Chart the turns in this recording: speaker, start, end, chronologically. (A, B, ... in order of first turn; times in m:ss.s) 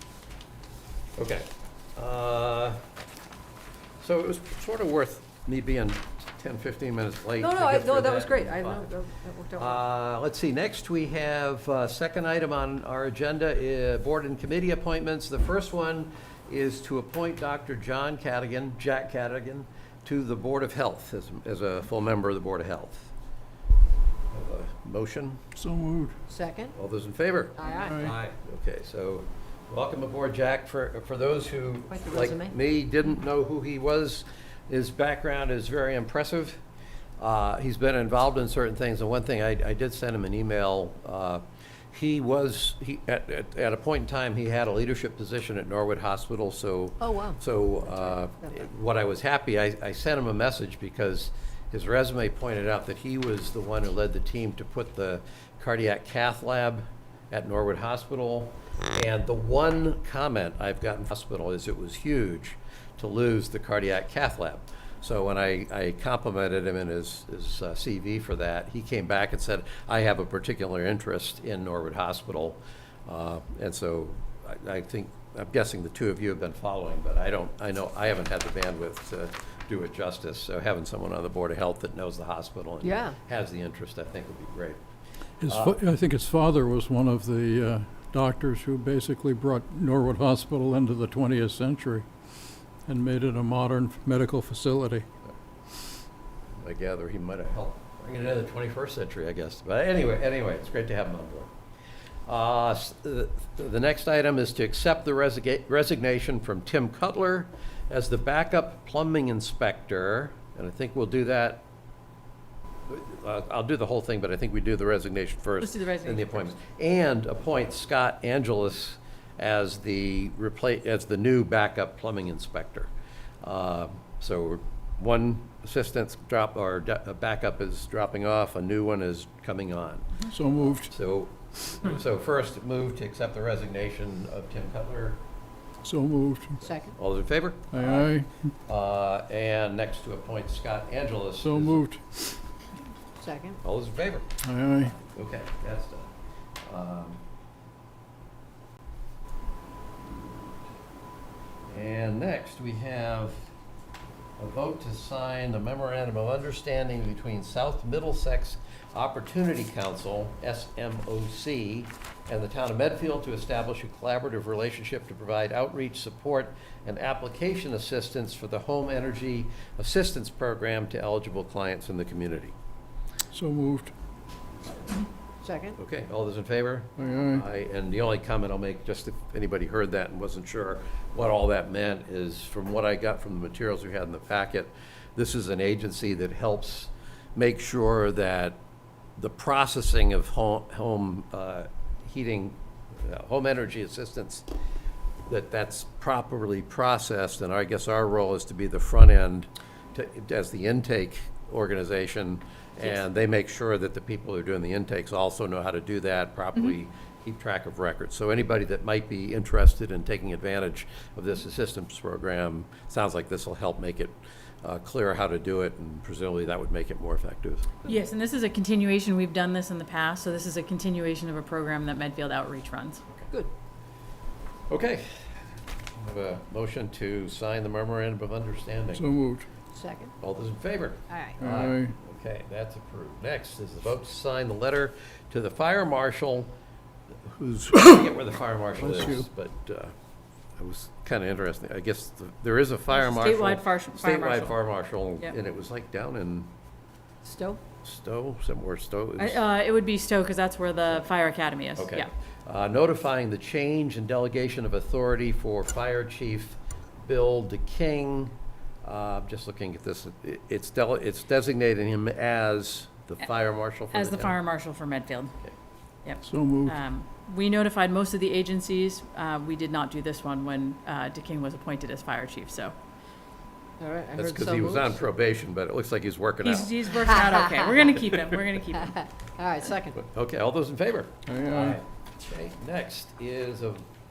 0:01.2-0:02.8 A
0:04.0-0:08.9 A
0:07.4-0:09.8 B
0:09.6-0:23.1 A
0:24.3-0:25.4 A
0:25.6-0:26.2 C
0:26.3-0:26.8 B
0:26.8-0:36.6 A
0:27.6-0:28.0 B
0:27.8-0:28.2 C
0:31.9-0:32.6 B
0:37.2-1:24.8 A
0:47.0-0:47.4 B
1:22.8-1:23.2 B
1:25.4-1:32.1 C
1:25.5-1:25.8 A
1:32.9-1:35.1 C
1:36.6-1:41.5 A
1:42.3-1:51.6 A
1:52.9-2:02.9 A
1:55.6-1:56.5 D
2:03.4-2:10.2 A
2:10.3-2:10.9 C
2:10.9-2:15.2 A
2:15.8-2:16.6 C
2:16.6-2:17.0 B
2:17.0-2:18.0 A
2:17.7-2:18.5 C
2:18.7-2:21.8 A
2:21.4-2:22.4 C
2:23.2-2:23.6 B
2:23.6-2:24.3 A
2:24.4-2:24.9 C
2:24.8-2:26.1 A
2:26.6-2:27.2 A
2:31.7-2:33.5 A
2:34.4-2:52.5 A
2:53.3-2:53.9 C
2:55.4-2:55.8 B
2:55.8-3:08.6 A
2:57.0-2:57.4 C
3:09.2-3:14.5 A
3:15.3-3:37.7 A
3:37.9-3:43.0 D
3:44.7-3:45.2 A
3:46.0-3:49.1 A
3:48.9-3:49.5 C
3:49.7-3:50.1 B
3:50.2-3:56.5 A
3:51.1-3:51.4 B
3:51.4-3:52.0 C
3:57.3-3:59.9 A
3:58.8-3:59.2 C
4:00.6-4:06.5 A
4:02.9-4:04.6 D
4:07.2-4:07.6 B
4:07.8-4:09.4 A
4:09.2-4:12.1 D
4:11.8-4:18.3 A
4:18.8-4:24.4 A
4:23.9-4:25.3 D
4:26.0-4:32.8 D
4:26.2-4:26.8 C
4:33.8-4:35.0 B
4:34.2-4:36.9 A
4:36.4-4:38.9 D
4:37.2-4:37.6 B
4:38.0-4:38.4 A
4:38.9-4:40.0 B
4:40.0-4:43.8 A
4:41.3-4:41.8 C